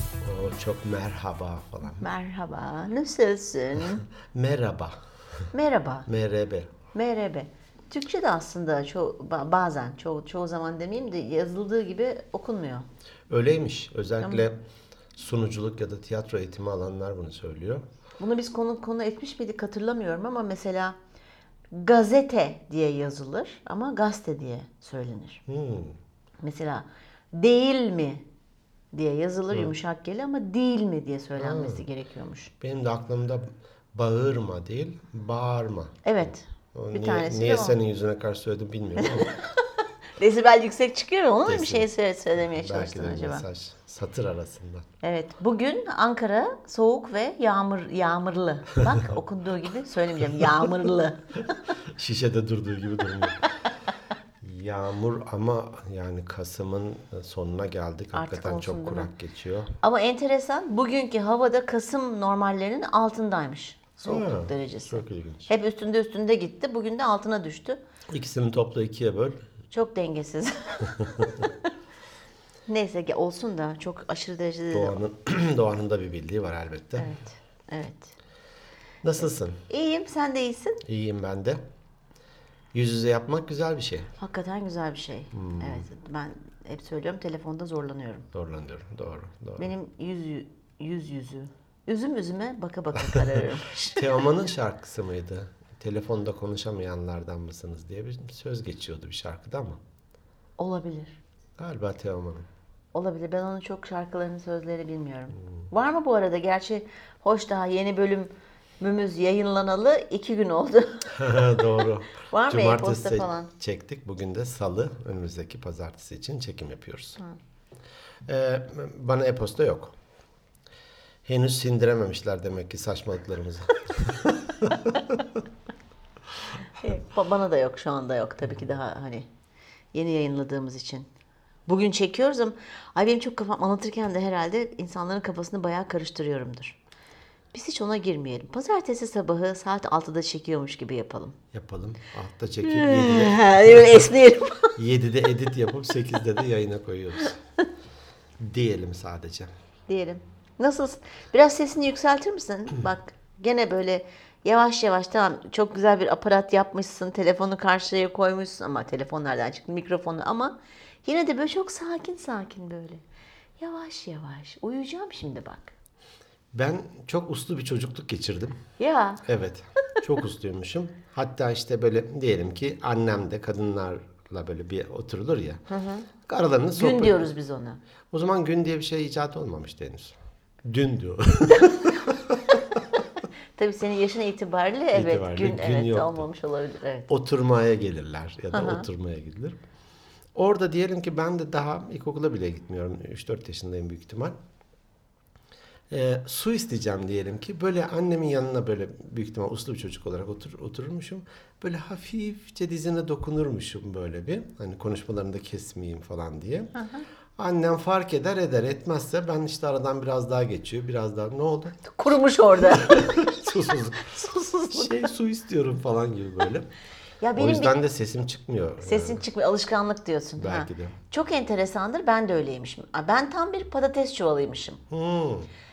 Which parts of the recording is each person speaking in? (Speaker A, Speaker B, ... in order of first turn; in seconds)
Speaker A: 0.2-2.1, 4.3-5.0, 6.0-6.7, 13.3-14.6, 15.1-17.8, 25.5-26.0, 31.4-31.9, 32.6-39.3, 41.5-44.9, 51.9-53.5, 54.4-59.7, 64.0-65.5, 68.1-69.4, 71.0-71.3, 74.7-77.1, 79.0-79.6, 80.8-81.6, 82.7-84.1, 85.3-85.8, 88.3-89.7, 93.9-99.8, 101.6-102.5, 111.1-117.2, 118.3-119.9, 121.2-125.2, 141.5-144.0, 144.8-147.4, 148.4-149.5, 166.5-168.6, 169.2-175.7, 176.2-177.3, 178.1-182.4, 184.9-186.3, 187.1-189.6, 190.3-194.3, 195.9-206.7, 207.4-211.8, 212.6-216.7, 217.4-219.2, 220.4-220.9, 224.9-225.5
Speaker B: 2.0-4.0, 5.5-6.1, 6.9-12.9, 18.2-21.0, 21.7-25.4, 26.4-28.2, 28.9-32.5, 36.0-37.8, 39.0-39.6, 40.2-43.4, 45.0-51.6, 58.1-59.1, 59.8-67.8, 69.7-71.7, 72.7-74.9, 77.0-78.1, 79.7-80.8, 84.2-88.2, 89.6-94.2, 100.6-101.2, 102.9-113.5, 126.8-129.3, 129.9-131.1, 131.7-136.8, 137.5-141.4, 142.6-144.8, 149.9-163.0, 163.6-165.7, 168.8-169.2, 175.7-176.1, 176.8-177.8, 181.6-182.1, 183.6-187.1, 188.5-188.8, 206.8-207.0, 211.9-213.3, 214.1-215.1, 217.2-217.8, 218.8-224.8